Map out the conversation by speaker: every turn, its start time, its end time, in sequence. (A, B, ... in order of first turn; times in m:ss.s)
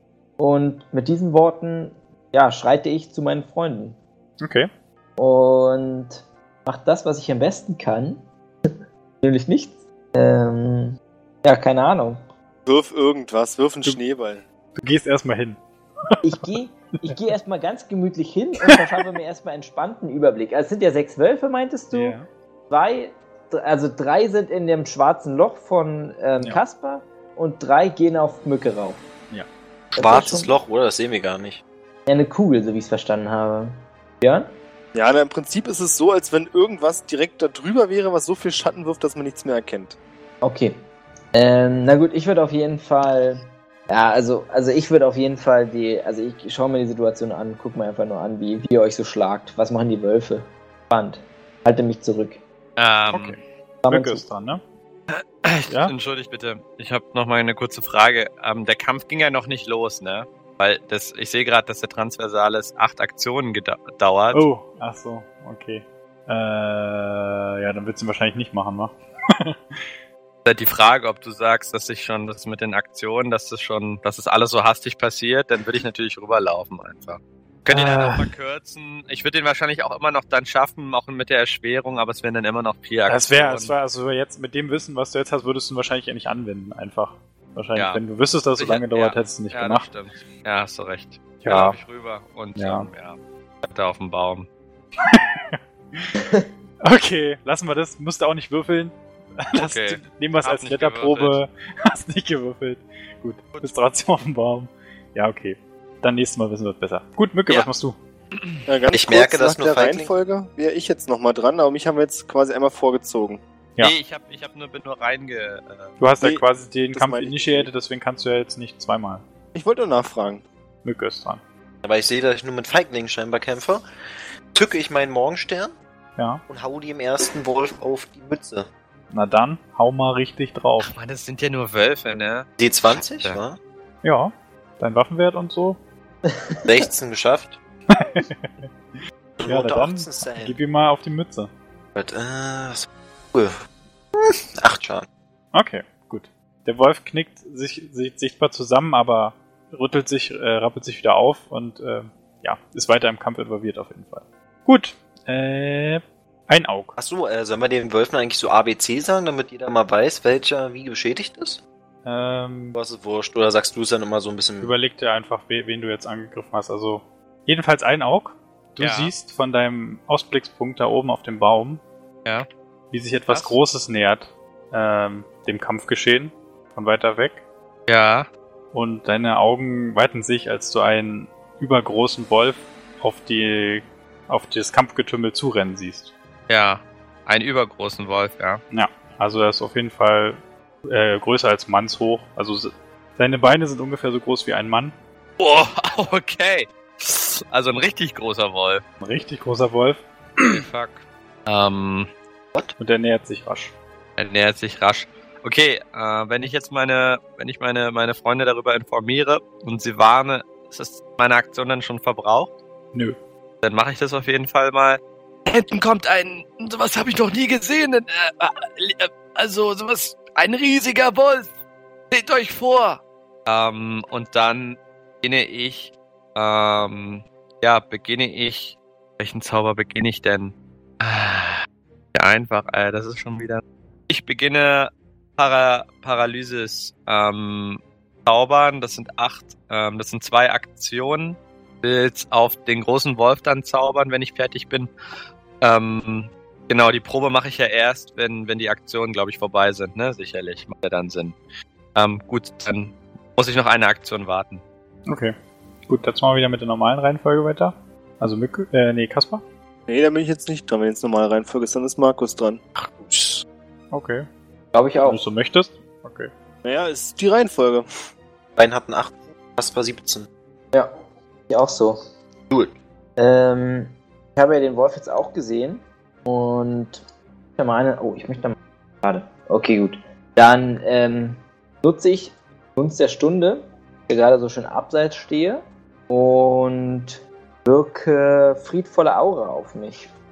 0:00.4-0:04.0 A
0:04.4-0:04.7 B
0:05.2-0:12.2 A
0:12.7-0:14.4 C
0:14.8-0:15.6 B
0:16.1-0:16.5 B
0:16.2-0:22.2 A
0:18.6-0:19.1 B
0:21.9-0:22.3 B
0:22.7-0:29.0 A
0:30.0-0:30.5 A
0:30.0-0:31.6 D
0:32.1-0:34.5 A
0:34.9-0:40.0 C
0:40.4-0:52.4 A
0:52.8-0:53.4 E
0:53.1-0:54.6 B
0:53.8-0:54.2 A
0:55.1-1:04.4 E
0:55.7-0:55.9 B
1:04.3-1:09.9 B
1:10.4-1:23.7 E
1:17.7-1:18.3 B
1:23.1-1:29.9 B
1:27.8-1:28.0 E
1:28.6-1:34.5 E
1:31.4-1:31.8 B
1:32.6-1:32.9 B
1:35.0-1:36.2 B
1:36.2-1:36.4 A
1:36.8-1:48.0 B
1:39.6-1:41.4 E
1:48.7-1:53.4 C
1:48.9-1:50.1 D
1:53.8-1:55.9 E
1:56.0-1:59.2 B
1:56.2-1:57.7 C
1:59.6-2:00.4 C
2:00.8-2:01.4 B
2:01.8-2:03.8 D
2:04.5-2:05.8 D
2:06.5-2:08.7 D
2:09.1-2:10.9 B
2:10.8-2:13.4 E
2:12.6-2:13.6 D
2:14.0-2:15.8 B
2:16.3-2:16.6 A
2:16.7-2:17.6 D
2:17.9-2:18.7 B
2:19.4-2:20.6 D
2:19.4-2:21.5 B
2:22.0-2:23.6 D
2:24.2-2:25.1 D
2:25.5-2:37.0 B
2:37.0-2:41.6 D
2:42.0-2:42.8 B
2:42.7-2:44.7 D
2:44.6-2:51.8 B
2:48.8-2:49.1 E
2:52.9-2:57.4 B
2:53.3-2:53.6 E
2:57.9-2:58.3 E
2:58.7-3:06.1 B
3:06.5-3:08.6 E
3:08.7-3:14.9 B
3:15.4-3:18.8 E
3:19.0-3:20.6 B
3:20.5-3:22.1 E
3:22.8-3:23.8 B
3:24.2-3:32.5 E
3:33.6-3:35.0 E
3:35.5-3:41.5 F
3:42.1-3:43.0 F
3:43.5-4:04.9 E
4:05.6-4:11.4 E
4:12.0-4:14.6 E
4:15.1-4:15.4 B
4:15.9-4:19.4 B
4:19.9-4:22.6 C
4:23.0-4:23.4 D
4:23.9-4:24.3 B
4:24.7-4:25.2 A
4:25.0-4:26.3 B
4:26.6-4:27.9 C
4:28.6-4:30.3 D
4:31.5-4:32.0 A
4:32.5-4:32.8 D
4:33.2-4:37.0 A
4:37.6-4:50.1 A